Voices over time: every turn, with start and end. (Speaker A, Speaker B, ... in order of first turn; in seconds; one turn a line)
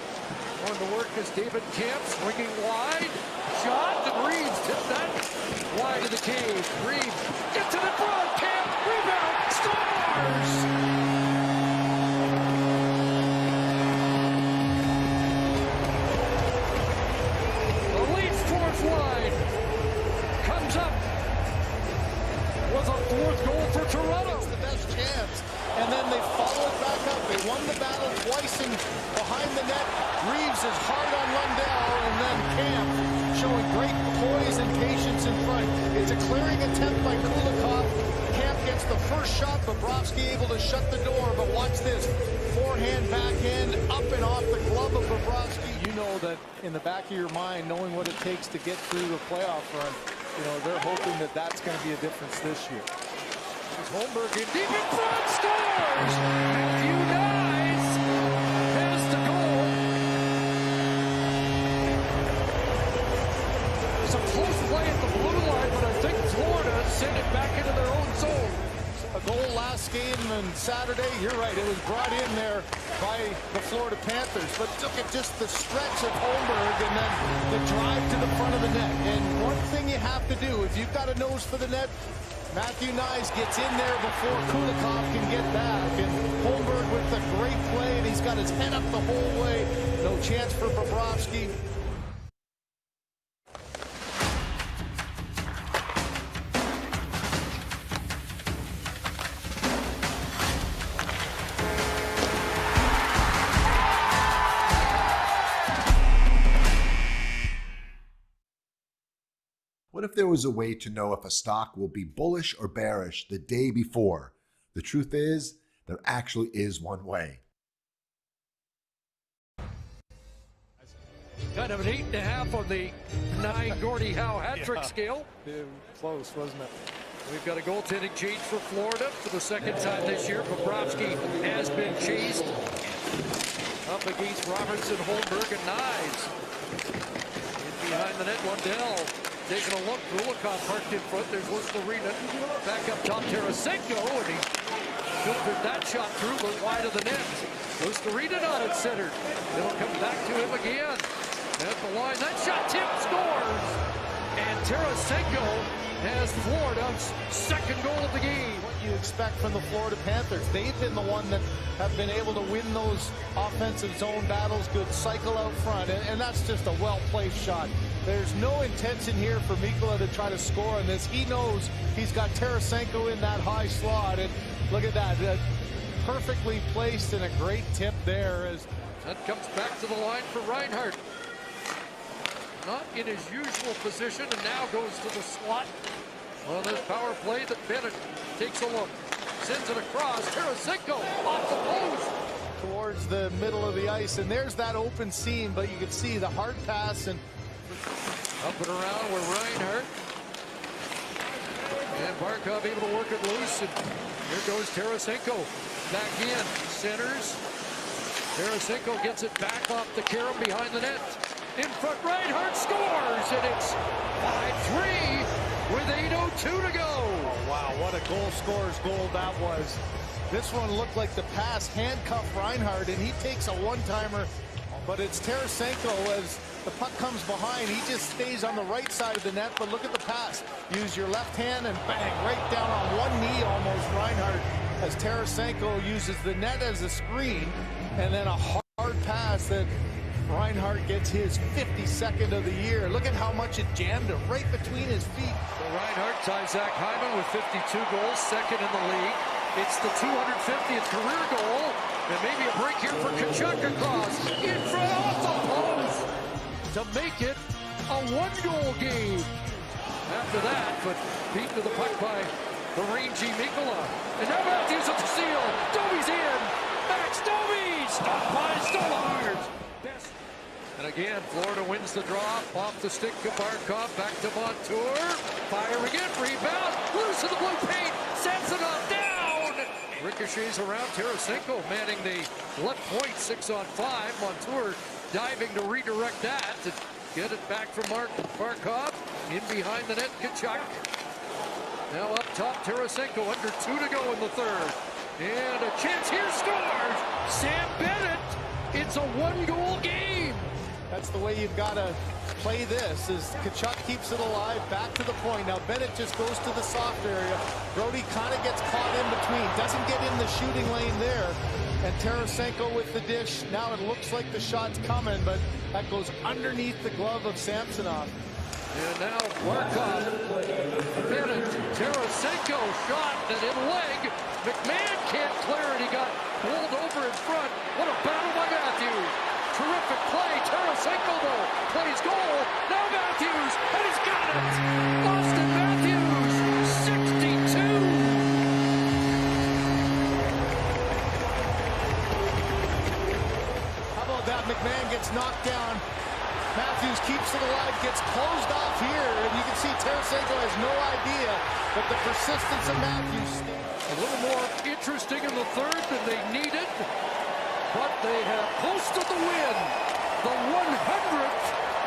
Speaker A: 0.5-10.7
Speaker A: 17.9-19.5
Speaker A: 20.4-21.0
Speaker A: 22.6-24.5
Speaker B: 24.2-52.9
Speaker A: 53.7-58.0
Speaker A: 58.7-59.8
Speaker A: 64.0-68.6
Speaker B: 69.1-82.0
Speaker B: 82.5-91.5
Speaker C: 109.9-117.4
Speaker A: 121.5-125.3
Speaker B: 124.6-124.8
Speaker B: 125.4-126.7
Speaker A: 127.2-132.6
Speaker A: 133.8-136.3
Speaker A: 137.6-144.5
Speaker A: 145.2-153.8
Speaker A: 154.3-158.7
Speaker B: 158.6-175.4
Speaker B: 176.0-178.7
Speaker A: 179.0-181.0
Speaker A: 182.6-185.7
Speaker A: 186.4-192.1
Speaker B: 192.6-197.2
Speaker A: 198.4-199.9
Speaker A: 201.9-207.4
Speaker A: 208.3-217.3
Speaker B: 217.2-239.7
Speaker B: 240.3-245.4
Speaker A: 245.6-256.1
Speaker A: 256.7-259.4
Speaker A: 260.1-270.1
Speaker A: 270.8-290.8
Speaker A: 291.9-300.5
Speaker B: 300.9-318.1
Speaker A: 318.7-338.3
Speaker B: 343.9-345.8
Speaker B: 346.5-353.8
Speaker A: 353.9-356.9
Speaker A: 357.7-361.5